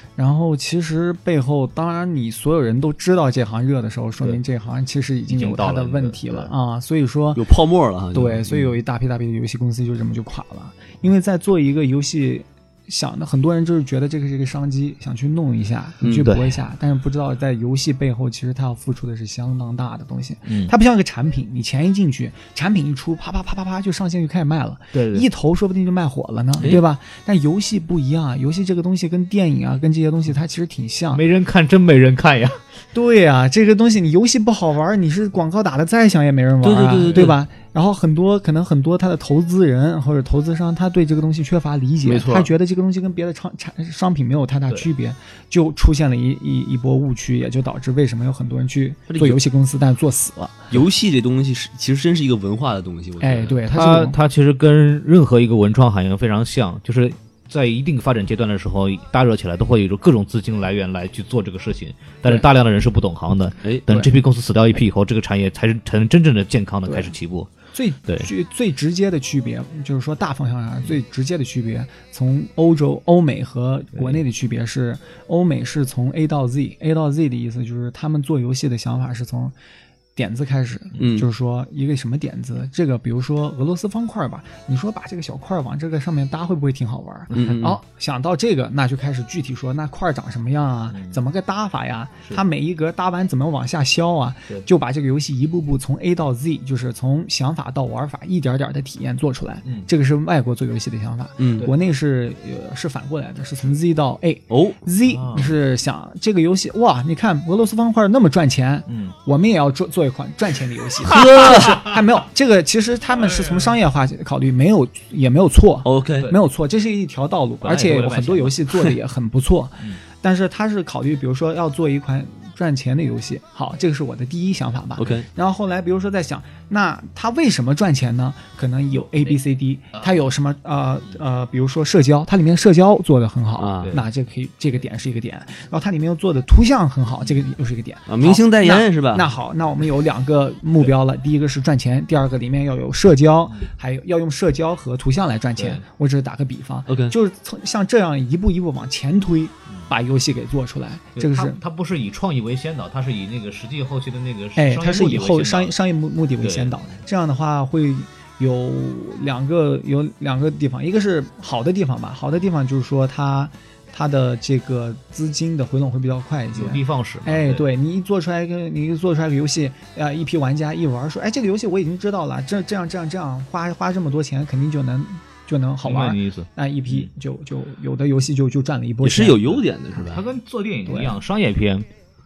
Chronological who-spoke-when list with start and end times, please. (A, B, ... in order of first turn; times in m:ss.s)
0:00.2-0:07.4 A
0:05.3-0:06.5 B
0:07.4-0:08.4 C
0:08.1-0:31.2 A
0:08.5-0:08.8 B
0:16.0-0:16.3 C
0:16.2-0:16.6 B
0:20.5-0:20.7 B
0:24.9-0:25.3 B
0:31.1-0:32.6 B
0:32.9-0:50.7 A
0:36.6-0:37.4 C
0:37.0-0:37.3 B
0:42.0-0:42.5 C
0:49.1-0:49.4 C
0:50.7-0:53.6 C
0:53.2-0:54.2 A
0:53.7-1:07.5 B
1:06.8-1:07.1 A
1:07.7-1:19.5 A
1:20.2-2:31.6 A
1:21.0-1:21.3 C
1:27.3-1:27.8 C
1:30.9-1:31.2 B
1:41.4-1:41.7 C
1:44.5-1:44.8 C
1:45.0-1:45.6 B
1:48.9-1:49.1 B
1:51.1-1:51.8 C
1:51.2-1:51.8 B
1:53.2-1:53.8 B
1:55.8-1:56.3 C
1:57.6-1:58.9 B
2:05.0-2:05.2 C
2:13.6-2:13.9 C
2:18.1-2:19.3 C
2:25.6-2:25.8 B
2:26.9-2:27.2 C
2:31.2-2:35.7 B
2:34.6-2:59.6 A
2:36.4-2:37.0 B
2:46.5-2:47.7 B
2:55.8-2:57.1 B
2:59.0-3:00.2 C
3:00.0-3:01.9 B
3:00.8-3:01.1 A